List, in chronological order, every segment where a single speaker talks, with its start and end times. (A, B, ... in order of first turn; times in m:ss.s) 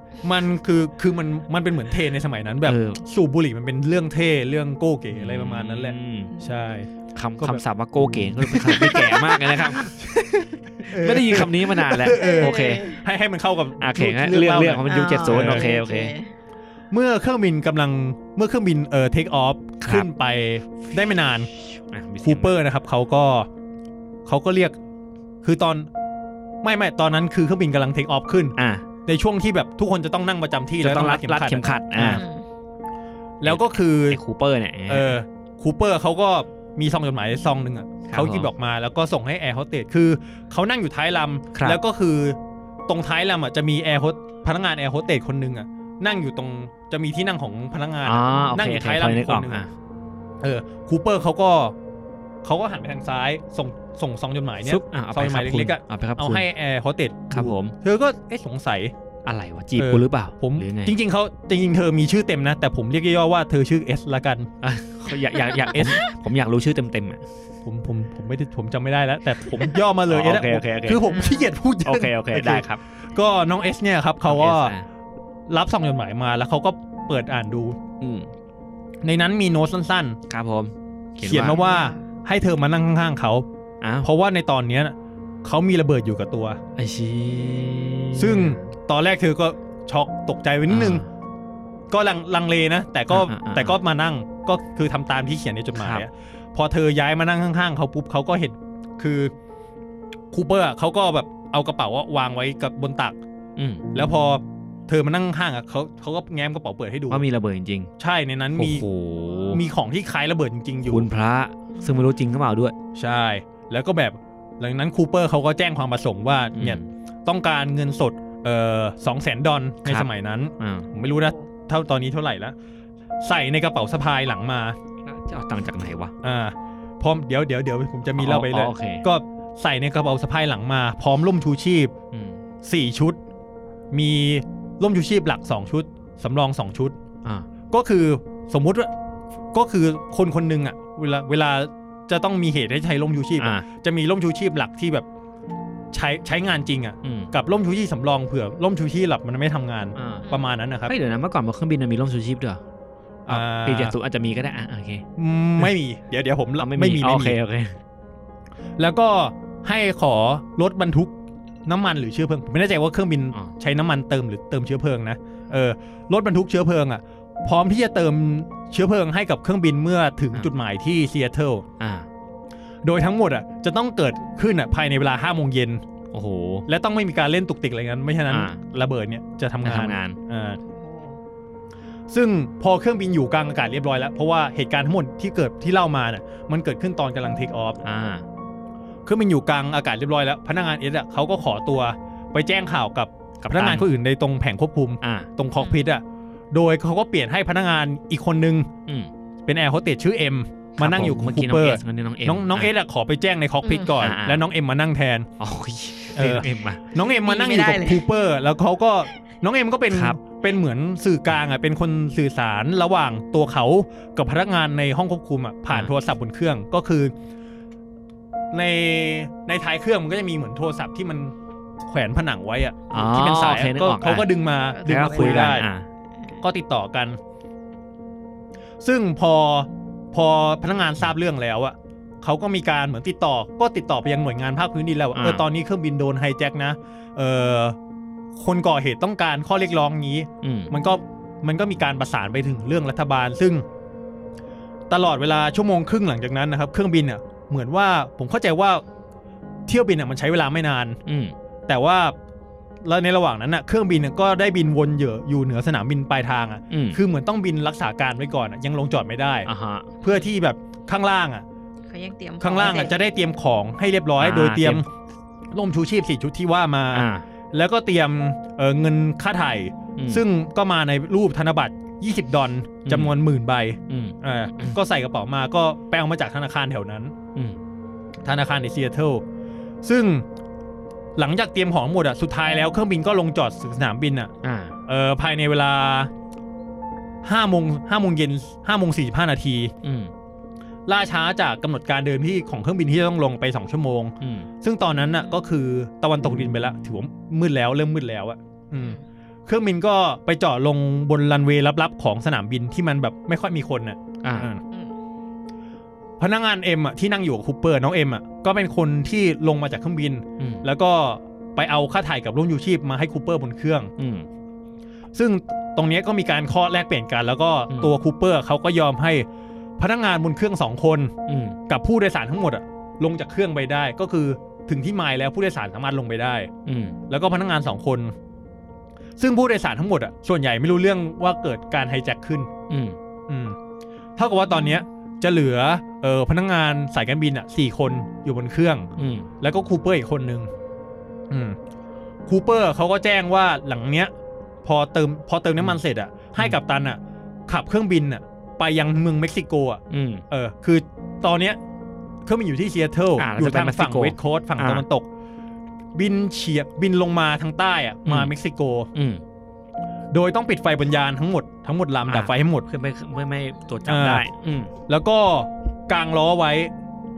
0:00.2-0:15.7 A
0:02.6-0:03.0 B
0:05.1-0:06.3 B
0:07.1-0:09.9 B
0:10.8-0:12.8 B
0:12.1-0:13.0 C
0:13.8-0:16.1 B
0:14.9-0:16.3 C
0:16.9-0:21.5 A
0:19.8-0:20.1 B
0:21.9-0:22.5 B
0:22.2-0:23.5 A
0:24.2-0:24.8 A
0:25.4-0:25.9 A
0:26.6-0:28.5 A
0:28.6-0:28.8 B
0:29.0-0:32.2 A
0:30.8-0:32.2 B
0:32.1-0:32.4 C
0:33.4-0:34.2 A
0:33.4-0:35.1 B
0:34.9-0:49.6 A
0:38.1-0:38.5 B
0:41.5-0:41.8 B
0:48.0-0:49.7 B
0:50.4-0:51.7 A
0:52.4-0:58.9 A
0:54.6-0:56.4 B
0:57.3-0:57.8 B
0:59.2-1:01.0 B
0:59.8-1:04.5 A
1:04.6-1:07.2 B
1:05.3-1:05.9 C
1:07.6-1:14.7 A
1:10.1-1:11.0 B
1:11.1-1:11.5 C
1:11.8-1:12.8 B
1:14.3-1:14.8 B
1:15.5-1:17.8 A
1:18.0-1:18.3 B
1:19.0-1:20.2 A
1:20.3-1:21.6 B
1:21.2-1:23.4 A
1:21.4-1:22.0 C
1:23.8-1:24.1 B
1:24.0-1:26.6 A
1:26.8-1:28.7 B
1:28.2-1:31.0 A
1:30.7-1:31.0 B
1:31.9-1:39.3 A
1:33.1-1:33.8 B
1:35.8-1:36.0 B
1:40.3-1:43.2 A
1:43.6-1:43.9 B
1:43.9-1:47.2 A
1:47.1-1:47.9 B
1:48.0-1:48.8 A
1:48.6-1:49.6 B
1:49.5-1:51.1 A
1:50.8-1:52.8 B
1:51.7-1:52.0 C
1:52.9-2:02.5 A
1:56.5-1:56.9 B
1:59.8-2:00.9 B
2:03.2-2:04.8 A
2:05.0-2:06.1 B
2:06.2-2:11.9 A
2:08.2-2:09.0 B
2:12.1-2:12.4 B
2:12.6-2:13.2 A
2:13.9-2:17.0 A
2:17.7-2:18.9 A
2:19.5-2:25.1 A
2:23.4-2:23.6 B
2:25.9-2:30.9 A
2:27.0-2:27.3 B
2:30.0-2:30.2 B
2:30.3-2:30.5 C
2:30.8-2:32.6 B
2:33.3-2:34.0 A
2:33.3-2:35.0 B
2:35.2-2:37.4 A
2:36.6-2:37.8 B
2:38.8-2:41.1 A
2:41.6-2:51.6 A
2:51.8-2:52.1 B
2:52.8-2:55.8 A
2:56.1-2:56.6 B
2:56.7-3:00.6 A
2:58.3-2:58.6 B
2:59.6-3:00.2 B
3:00.7-3:01.2 C
3:02.1-3:07.8 A
3:07.8-3:08.2 B
3:09.0-3:18.7 A
3:13.4-3:13.9 B
3:15.0-3:15.3 B
3:19.4-3:25.3 A
3:20.8-3:22.7 B
3:23.6-3:23.9 C
3:24.0-3:24.4 B
3:25.4-3:26.8 B
3:26.2-3:37.1 A
3:27.0-3:28.0 C
3:29.9-3:30.2 B
3:38.5-3:45.7 A
3:42.9-3:44.3 B
3:44.7-3:45.6 C
3:44.8-3:45.8 B
3:46.4-3:47.2 A
3:48.8-3:57.8 A
3:55.1-3:55.4 B
3:58.4-4:03.6 A
4:00.4-4:00.7 B
4:04.9-4:08.8 A
4:09.7-4:11.0 A
4:11.0-4:11.3 B
4:11.7-4:12.2 A
4:12.8-4:19.5 A
4:16.7-4:17.0 B
4:19.4-4:19.9 B
4:20.0-4:20.3 C
4:20.0-4:21.4 A
4:21.9-4:22.9 C
4:22.4-4:24.8 A
4:24.2-4:24.8 B
4:25.5-4:37.1 A
4:26.9-4:27.2 B
4:30.0-4:30.2 B
4:32.8-4:33.2 B
4:33.9-4:34.8 B
4:37.3-4:37.6 B
4:38.2-4:39.2 A
4:39.8-4:40.2 A
4:41.2-4:44.3 A
4:44.4-4:44.8 B
4:44.8-4:46.1 A
4:47.2-4:49.7 A
4:49.8-4:50.1 B
4:50.9-5:04.6 A
4:54.2-4:54.5 B
4:58.8-4:59.0 C
5:04.2-5:04.5 B
5:06.2-5:13.9 A
5:10.4-5:10.6 B
5:14.0-5:14.3 B
5:15.1-5:19.3 A
5:19.8-5:21.1 A
5:21.3-5:21.6 B
5:21.7-5:26.5 A
5:26.6-5:27.0 B
5:27.1-5:28.1 A
5:29.2-5:32.5 A
5:32.7-5:33.0 B
5:33.3-5:33.6 A
5:34.2-5:38.9 A
5:34.5-5:34.8 C
5:39.0-5:39.3 B
5:39.4-5:40.5 A
5:41.3-5:41.6 A
5:42.2-5:44.1 A
5:44.6-5:51.6 A
5:49.9-5:50.2 B
5:52.2-5:55.1 A
5:53.2-5:54.8 B
5:55.9-5:58.9 A
5:58.0-5:58.3 B
5:58.9-5:59.2 B
6:00.1-6:02.7 A
6:02.1-6:04.7 B
6:03.8-6:04.3 A
6:04.9-6:06.7 A